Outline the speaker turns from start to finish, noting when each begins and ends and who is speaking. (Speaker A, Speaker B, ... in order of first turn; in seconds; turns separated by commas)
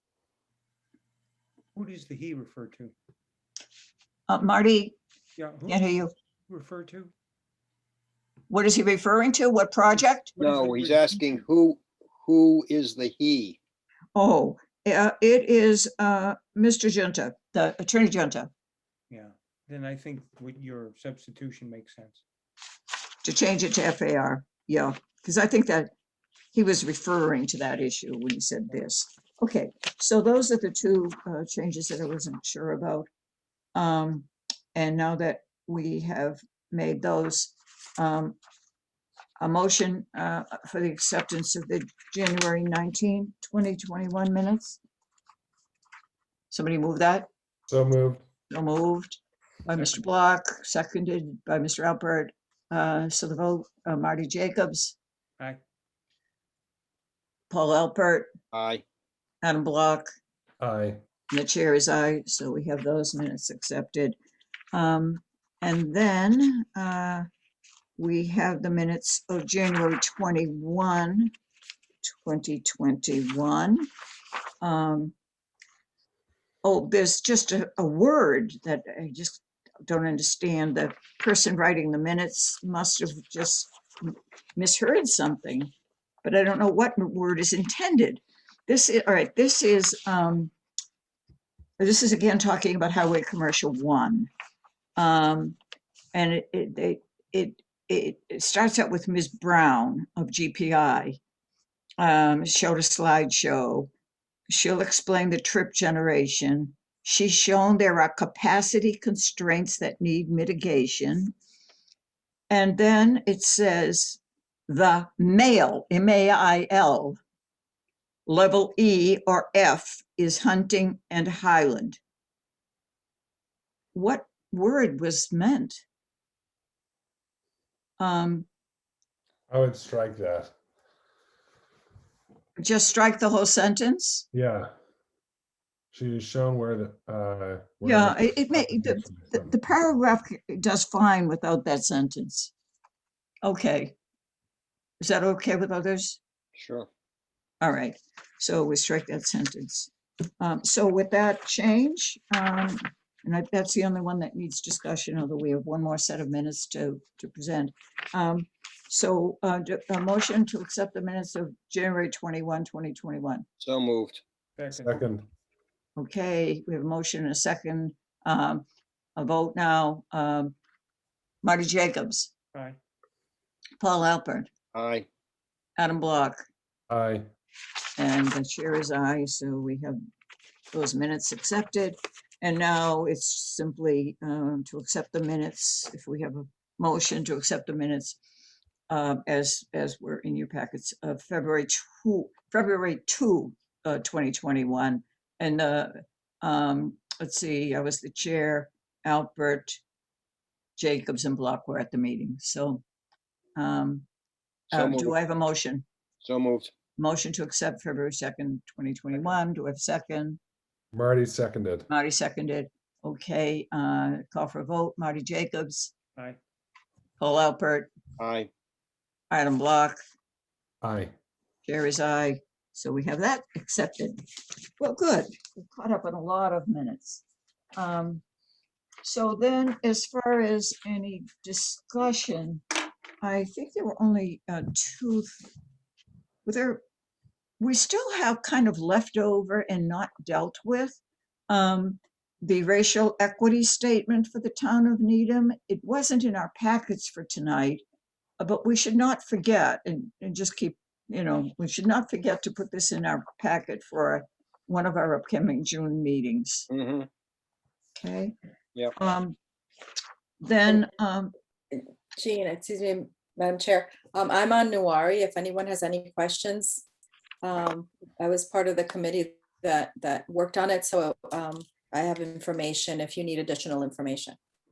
Speaker A: 1.8-3.0, Speaker B: 4.3-5.0, Speaker A: 5.4-5.9, Speaker B: 5.7-6.1, Speaker A: 6.5-7.1, Speaker B: 8.5-10.3, Speaker A: 10.3-11.4, Speaker C: 10.4-13.6, Speaker B: 14.1-18.5, Speaker A: 19.1-22.2, Speaker B: 23.2-25.9, Speaker B: 26.5-33.1, Speaker B: 33.8-38.4, Speaker B: 39.4-44.8, Speaker B: 46.5-47.3, Speaker D: 47.7-48.2, Speaker B: 48.5-55.0, Speaker B: 57.5-58.3, Speaker C: 58.5-58.8, Speaker B: 59.4-60.1, Speaker D: 60.6-61.0, Speaker B: 61.3-64.2, Speaker B: 64.7-67.3, Speaker B: 68.0-71.3, Speaker B: 72.0-73.9, Speaker B: 74.6-75.1, Speaker B: 76.6-85.7, Speaker B: 86.2-90.5, Speaker B: 91.8-94.3, Speaker B: 95.0-95.6, Speaker B: 96.1-101.2, Speaker B: 102.0-103.9, Speaker B: 104.5-111.3, Speaker B: 112.5-117.2, Speaker B: 118.3-122.0, Speaker B: 123.9-125.8, Speaker B: 128.0-128.4, Speaker D: 129.5-130.5, Speaker B: 132.6-134.2, Speaker D: 134.3-134.7, Speaker D: 135.9-139.6, Speaker B: 137.8-142.5, Speaker B: 143.4-143.9, Speaker B: 145.0-146.2, Speaker C: 146.6-146.9, Speaker B: 147.6-163.4, Speaker C: 163.6-164.2, Speaker A: 164.6-165.0, Speaker D: 164.7-165.3, Speaker B: 166.0-168.7, Speaker B: 169.2-170.5, Speaker B: 171.4-172.3, Speaker B: 173.8-174.5, Speaker C: 174.7-175.1, Speaker B: 175.8-176.4, Speaker D: 176.9-177.3, Speaker B: 178.0-180.0, Speaker B: 180.7-188.2, Speaker B: 188.9-199.8, Speaker B: 200.8-202.8, Speaker B: 203.6-204.1, Speaker B: 204.7-205.8, Speaker C: 204.7-205.2, Speaker C: 206.2-206.7, Speaker B: 207.0-210.4, Speaker D: 210.9-211.9, Speaker B: 211.9-215.9, Speaker B: 217.2-217.9, Speaker C: 218.2-218.5, Speaker B: 219.3-220.0, Speaker D: 220.8-221.1, Speaker B: 221.6-224.2, Speaker B: 224.8-227.2, Speaker B: 227.8-228.2, Speaker B: 229.0-232.6, Speaker B: 233.2-235.3, Speaker B: 236.4-236.8, Speaker B: 237.6-247.8, Speaker B: 248.4-256.7, Speaker C: 256.7-257.1, Speaker B: 258.0-258.3, Speaker B: 259.0-259.4, Speaker B: 260.4-261.3, Speaker E: 261.7-266.8, Speaker E: 267.4-274.4